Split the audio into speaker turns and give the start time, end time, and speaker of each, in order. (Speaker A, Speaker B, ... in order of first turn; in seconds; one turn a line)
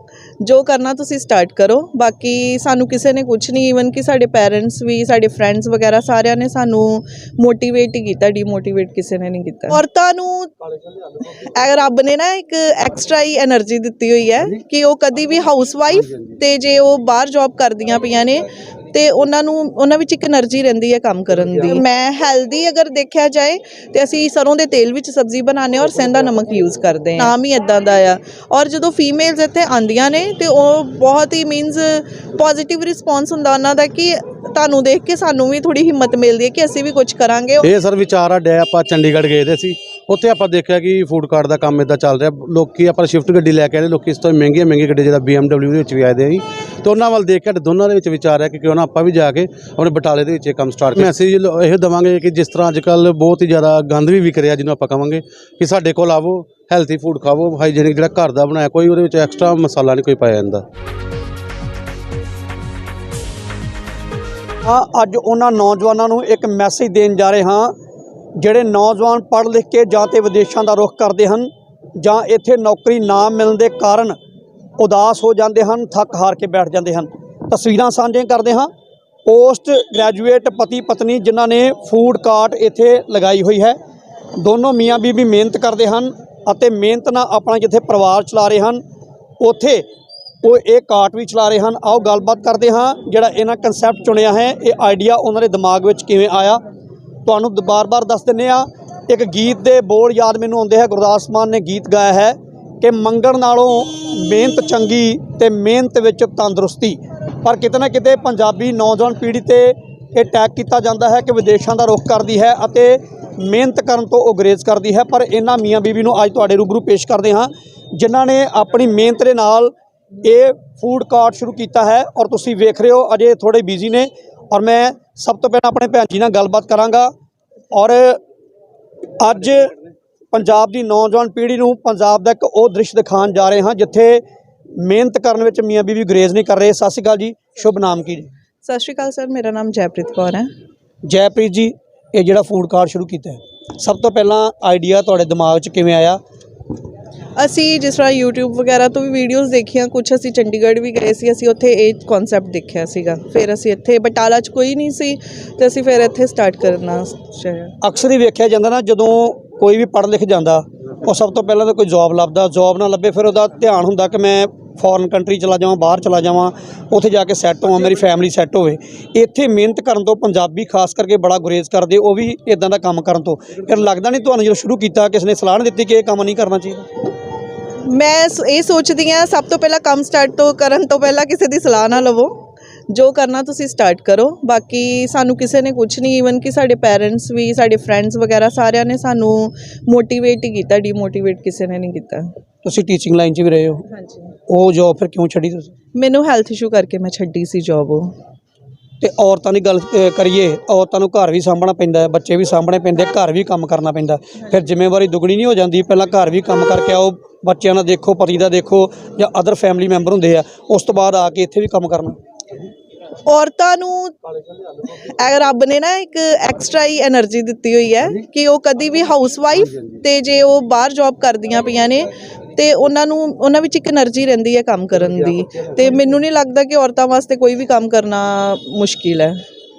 Speaker A: 0.4-10.5
Speaker A: 11.2-37.7
Speaker B: 37.6-60.6
Speaker C: 64.6-67.7
Speaker C: 68.3-74.2
Speaker C: 74.8-78.7
Speaker C: 79.2-83.8
Speaker C: 84.4-88.8
Speaker C: 89.4-89.8
Speaker C: 90.4-96.6
Speaker C: 97.2-127.1
Speaker C: 127.7-128.2
Speaker C: 129.2-129.7
Speaker C: 130.3-134.2
Speaker C: 134.8-138.3
Speaker A: 138.6-140.5
Speaker C: 141.1-146.2
Speaker A: 147.3-157.7
Speaker C: 157.8-176.8
Speaker A: 177.8-182.3
Speaker A: 182.9-192.3
Speaker C: 192.6-193.9
Speaker C: 194.5-195.7
Speaker A: 195.9-198.1
Speaker C: 199.0-212.2
Speaker A: 213.2-214.1
Speaker A: 214.8-229.4